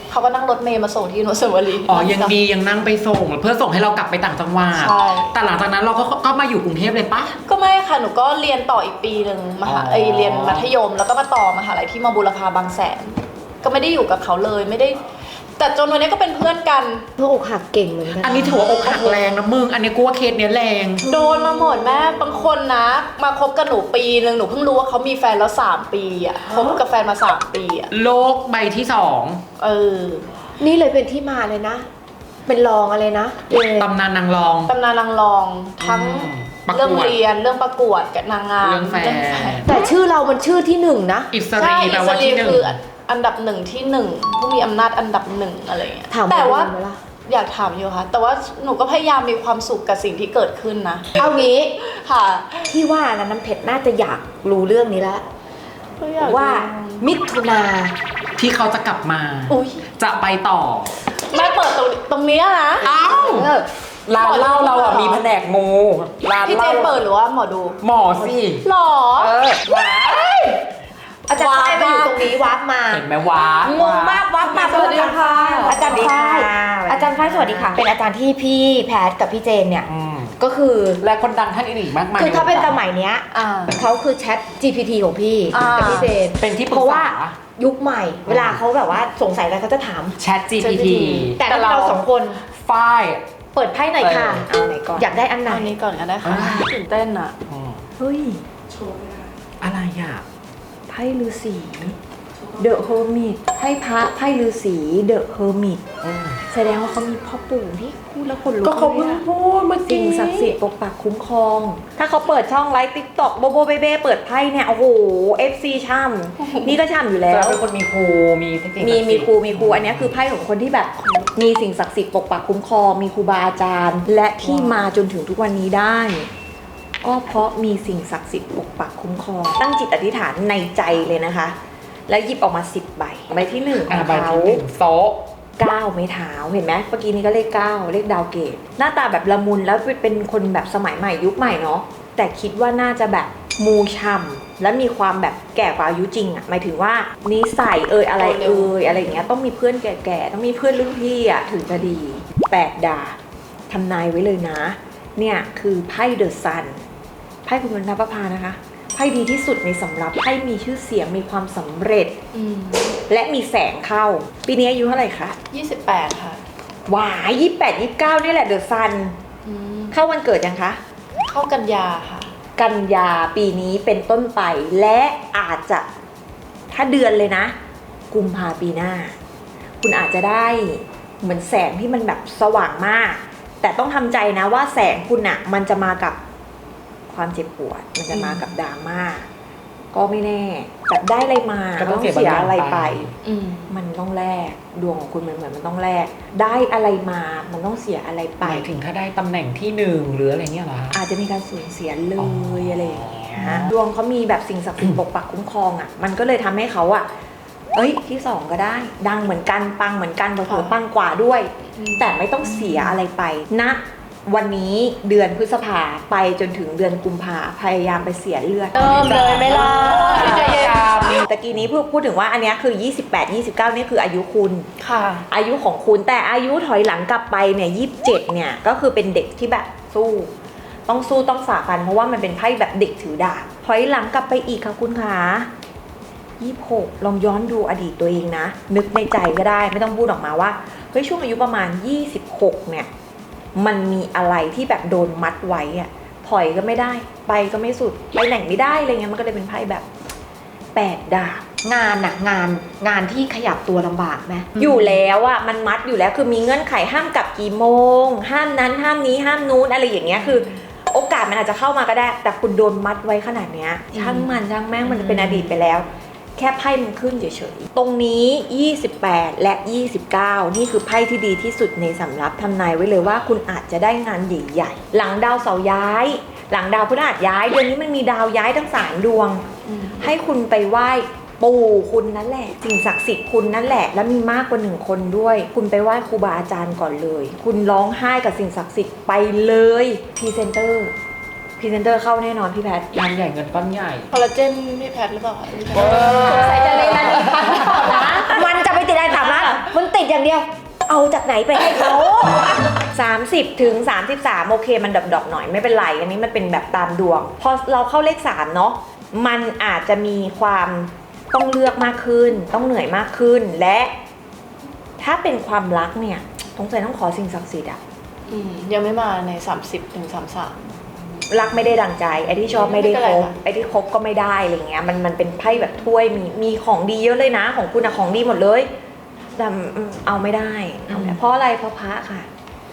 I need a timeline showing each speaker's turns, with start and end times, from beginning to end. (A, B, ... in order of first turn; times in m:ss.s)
0:00.1-0:02.4 A
0:01.8-0:07.4 B
0:04.7-0:05.3 A
0:07.5-0:15.0 A
0:09.7-0:10.7 B
0:15.6-0:17.1 A
0:17.2-0:19.2 C
0:18.2-0:21.1 B
0:21.0-0:21.9 C
0:21.1-0:27.9 A
0:27.9-0:29.4 B
0:29.6-0:30.3 A
0:30.6-0:31.9 C
0:32.5-0:33.9 C
0:33.8-0:34.7 B
0:34.7-0:39.8 A
0:35.8-0:37.2 B
0:38.6-0:39.7 B
0:39.7-0:41.3 C
0:41.3-0:42.8 B
0:41.6-0:46.7 A
0:46.1-0:47.0 C
0:47.3-0:51.2 A
0:51.2-0:51.8 C
0:51.8-0:52.7 A
0:52.7-0:55.2 C
0:56.0-0:57.1 A
0:56.2-0:56.7 D
0:57.0-0:58.0 C
0:58.4-1:01.0 B
0:59.5-0:59.9 A
1:01.3-1:02.9 A
1:02.8-1:03.5 B
1:03.2-1:03.7 C
1:04.1-1:07.0 B
1:04.2-1:05.2 A
1:06.4-1:07.8 A
1:07.8-1:08.6 B
1:08.6-1:09.3 A
1:09.2-1:10.2 B
1:11.3-1:13.1 C
1:11.3-1:12.3 A
1:12.9-1:14.3 B
1:13.6-1:21.0 C
1:14.4-1:16.1 A
1:14.5-1:17.8 D
1:19.9-1:20.4 B
1:21.0-1:22.8 B
1:22.2-1:30.2 C
1:23.3-1:23.8 A
1:25.5-1:26.2 A
1:25.6-1:27.4 B
1:28.3-1:28.6 B
1:30.2-1:31.4 B
1:30.6-1:32.1 A
1:31.4-1:32.4 C
1:32.6-1:33.2 B
1:33.6-1:35.8 C
1:34.0-1:34.4 B
1:34.4-1:35.2 D
1:35.4-1:37.4 A
1:36.2-1:36.7 B
1:37.5-1:37.8 B
1:38.0-1:38.4 D
1:39.6-1:40.2 B
1:40.9-1:42.0 D
1:42.6-1:45.8 D
1:46.0-1:46.4 B
1:46.5-1:49.3 D
1:48.6-1:50.6 B
1:49.8-1:57.6 D
1:56.4-1:56.7 A
1:57.3-2:00.1 B
1:58.8-2:06.3 D
2:04.4-2:04.8 B
2:07.0-2:11.6 D
2:12.1-2:14.6 D
2:13.9-2:15.2 B
2:15.6-2:33.2 D
2:28.2-2:29.3 A
2:33.7-2:36.8 D
2:37.4-2:42.2 D
2:42.3-2:43.0 A
2:43.1-2:45.4 D
2:45.5-2:46.4 A
2:46.9-2:49.2 D
2:49.5-2:50.0 A
2:49.9-2:50.8 D
2:51.3-2:52.3 A
2:52.6-2:55.9 D
2:56.7-2:57.5 D
2:58.1-2:59.2 D
2:59.8-3:06.2 D
3:07.1-3:09.3 D
3:08.1-3:08.5 A
3:09.9-3:13.1 D
3:11.8-3:13.1 B
3:13.2-3:13.7 A
3:13.7-3:18.7 D
3:18.4-3:21.0 B
3:20.9-3:27.1 D
3:22.2-3:23.7 B
3:27.7-3:44.7 D
3:30.5-3:30.8 A
3:31.8-3:32.7 A
3:38.8-3:41.2 A
3:38.8-3:40.7 C
3:38.8-3:41.2 B
3:44.8-3:45.3 A
3:45.3-3:50.3 D
3:50.9-3:55.5 D
3:56.4-4:02.9 D
4:03.6-4:09.9 D
4:10.8-4:11.5 D
4:11.6-4:14.6 C
4:14.6-4:39.4 D
4:39.7-4:40.1 A
4:40.0-4:50.9 D
4:51.6-4:52.9 D
4:52.9-4:54.1 B
4:54.1-4:58.2 A
4:55.8-4:58.1 B
4:55.8-5:02.6 C
4:56.5-4:57.2 D
4:59.2-4:59.6 D
5:02.9-5:13.9 D
5:15.0-5:17.8 D
5:18.3-5:20.6 A
5:21.3-5:28.7 D
5:22.6-5:23.4 A
5:29.4-5:32.3 D